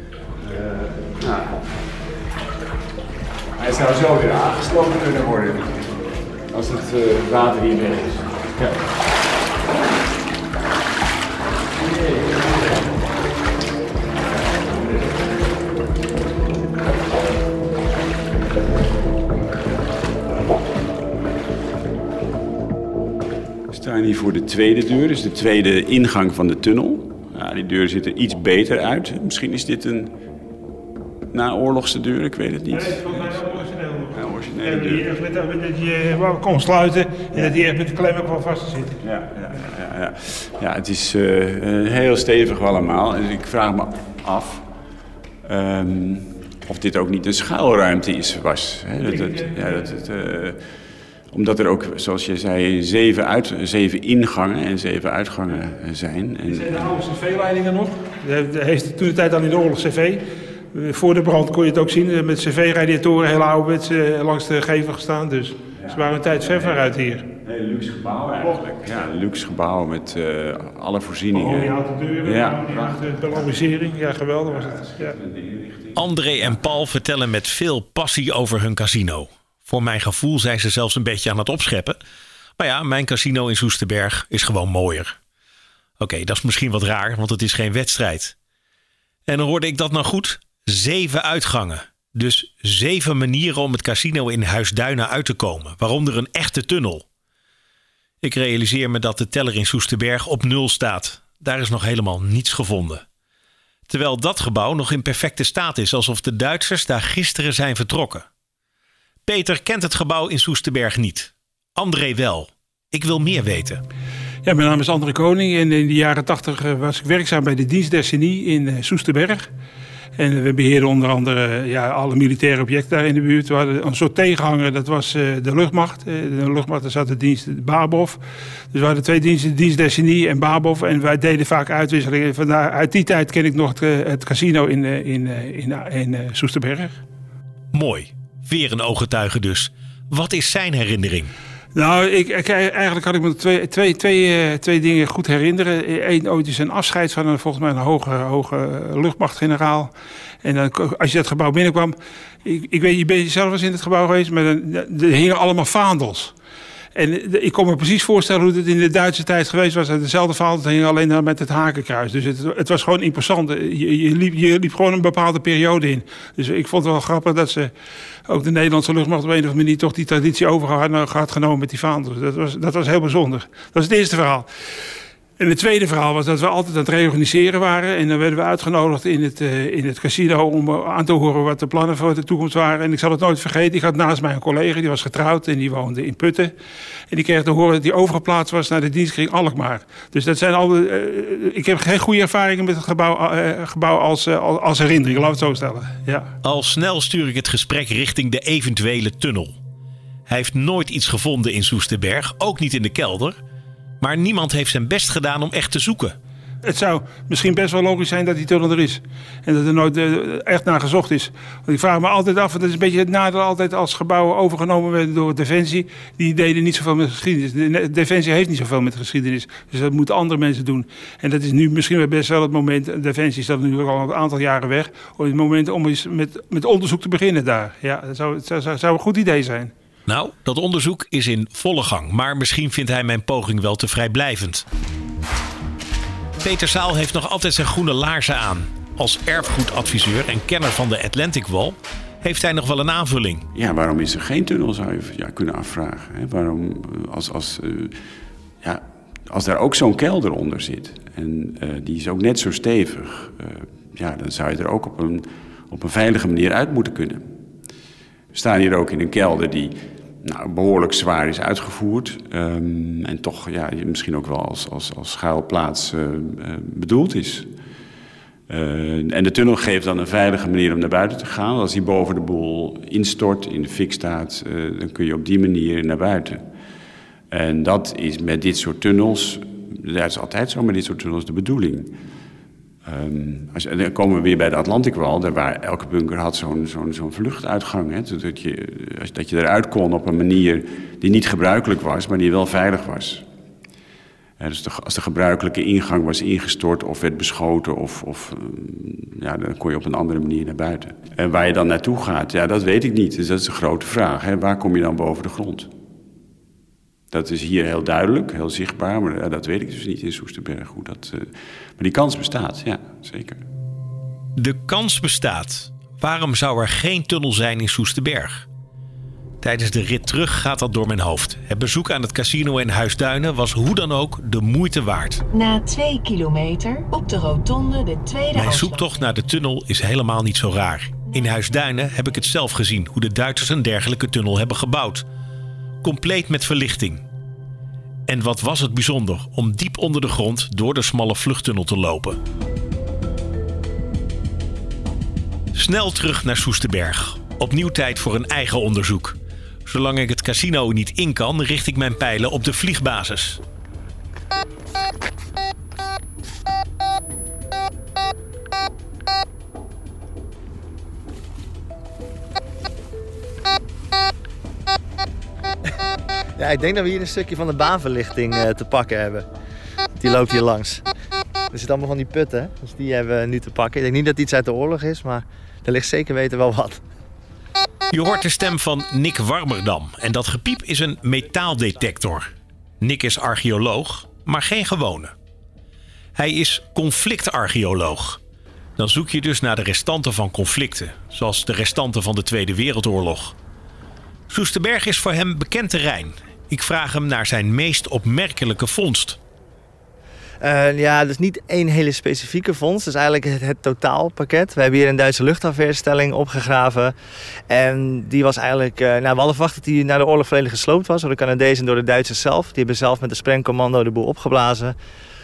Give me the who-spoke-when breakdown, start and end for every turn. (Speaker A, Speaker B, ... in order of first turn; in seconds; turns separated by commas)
Speaker A: 0.4-1.5, Speaker A: 3.6-5.9, Speaker A: 6.5-8.8, Speaker A: 11.8-12.7, Speaker A: 23.7-30.1, Speaker A: 31.3-33.6, Speaker B: 32.7-39.0, Speaker A: 34.1-35.0, Speaker A: 37.3-37.6, Speaker A: 39.0-44.6, Speaker A: 45.4-50.6, Speaker B: 49.0-49.8, Speaker A: 51.3-56.9, Speaker B: 56.5-67.2, Speaker A: 65.8-66.9, Speaker A: 67.4-73.8, Speaker B: 71.3-75.2, Speaker A: 74.4-76.6, Speaker C: 76.0-82.0, Speaker C: 82.6-85.2, Speaker C: 86.0-88.3, Speaker C: 89.3-97.0, Speaker C: 98.2-103.0, Speaker C: 103.9-108.3, Speaker C: 109.3-113.8, Speaker B: 114.4-119.5, Speaker B: 120.2-128.2, Speaker B: 128.7-137.0, Speaker C: 137.7-141.3, Speaker B: 141.7-149.9, Speaker B: 150.4-156.3, Speaker B: 156.9-167.7, Speaker B: 168.3-174.5, Speaker B: 175.4-186.5, Speaker B: 187.1-196.3, Speaker C: 196.4-199.6, Speaker C: 200.3-203.4, Speaker C: 204.0-206.2, Speaker B: 206.6-229.7, Speaker C: 230.1-234.6, Speaker C: 236.4-243.5, Speaker A: 243.5-248.0, Speaker A: 248.6-257.2, Speaker A: 258.3-267.5, Speaker A: 268.5-276.4, Speaker A: 277.3-281.9, Speaker A: 282.9-293.2, Speaker A: 294.4-305.7, Speaker A: 307.1-313.4, Speaker C: 314.4-318.5, Speaker C: 319.4-325.2, Speaker D: 325.3-328.9, Speaker C: 328.3-335.1, Speaker C: 335.8-337.0, Speaker C: 338.1-342.2, Speaker C: 345.5-353.4, Speaker E: 366.4-369.2, Speaker E: 370.0-370.8, Speaker E: 371.5-376.8, Speaker C: 377.9-382.3, Speaker C: 382.8-385.1, Speaker C: 386.1-388.2, Speaker C: 388.8-393.4, Speaker C: 394.3-399.2, Speaker E: 400.4-406.9, Speaker E: 407.5-414.7